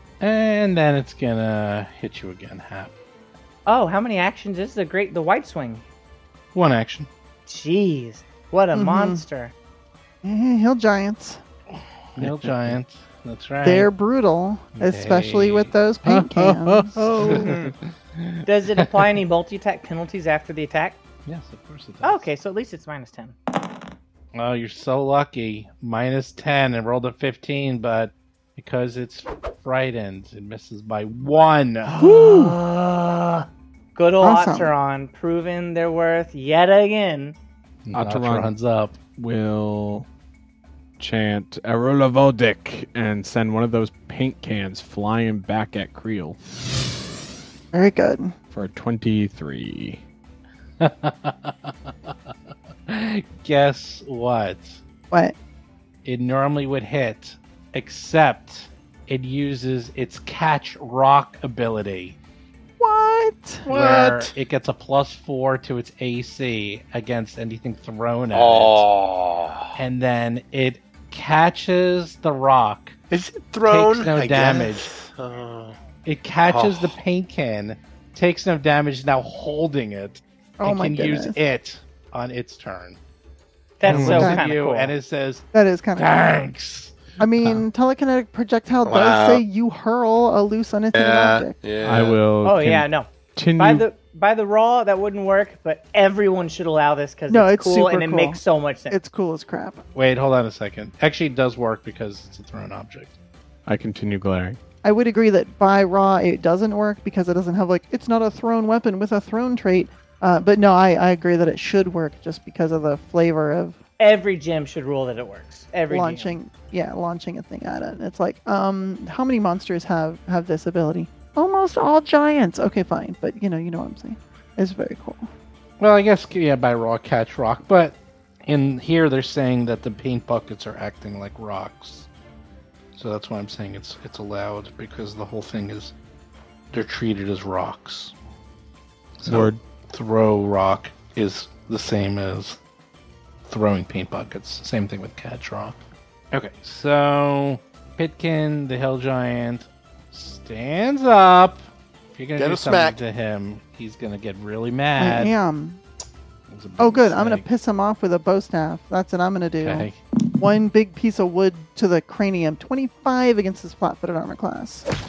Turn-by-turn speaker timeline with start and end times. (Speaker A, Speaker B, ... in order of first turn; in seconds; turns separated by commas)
Speaker A: 0.2-2.9, Speaker B: 3.6-5.8, Speaker A: 6.5-7.1, Speaker B: 7.5-9.5, Speaker C: 8.7-9.2, Speaker C: 10.2-11.4, Speaker A: 12.2-13.9, Speaker D: 12.2-12.8, Speaker C: 13.6-17.1, Speaker A: 14.8-15.7, Speaker D: 16.0-17.7, Speaker A: 17.1-18.9, Speaker B: 17.2-17.7, Speaker B: 18.4-21.0, Speaker A: 21.2-22.3, Speaker B: 22.0-23.3, Speaker A: 24.3-32.3, Speaker B: 31.9-37.4, Speaker C: 32.0-32.6, Speaker C: 34.2-34.7, Speaker A: 37.8-39.0, Speaker D: 37.9-38.5, Speaker D: 39.2-40.1, Speaker D: 41.0-46.4, Speaker C: 47.7-48.3, Speaker D: 48.5-50.0, Speaker A: 50.8-52.3, Speaker A: 52.9-54.8, Speaker C: 55.1-55.4, Speaker A: 56.0-62.2, Speaker C: 62.8-63.7, Speaker E: 63.7-64.3, Speaker A: 63.7-68.8, Speaker E: 68.3-69.8, Speaker A: 69.7-73.0, Speaker E: 73.1-75.8, Speaker A: 73.7-74.9, Speaker A: 76.0-83.0, Speaker E: 76.5-77.0, Speaker C: 80.6-81.4, Speaker B: 83.8-84.9, Speaker A: 83.8-85.4, Speaker D: 83.8-84.3, Speaker C: 84.1-84.4, Speaker C: 85.5-86.1, Speaker A: 86.0-87.0, Speaker C: 87.2-91.5, Speaker E: 88.8-89.4, Speaker E: 90.9-92.2, Speaker D: 91.8-93.8, Speaker B: 92.4-93.1, Speaker B: 93.6-99.0, Speaker C: 97.3-98.4, Speaker C: 98.9-99.8, Speaker A: 99.9-103.2, Speaker D: 103.7-104.6, Speaker C: 104.8-113.8, Speaker B: 114.0-116.3, Speaker C: 115.9-125.3, Speaker A: 125.8-132.1, Speaker A: 132.9-135.9, Speaker A: 136.7-138.1, Speaker A: 139.2-142.6, Speaker D: 139.2-139.6, Speaker A: 143.4-145.8, Speaker A: 146.3-155.3, Speaker E: 152.4-153.0, Speaker C: 155.0-155.8, Speaker A: 156.5-157.4, Speaker C: 156.8-164.9, Speaker A: 159.6-160.0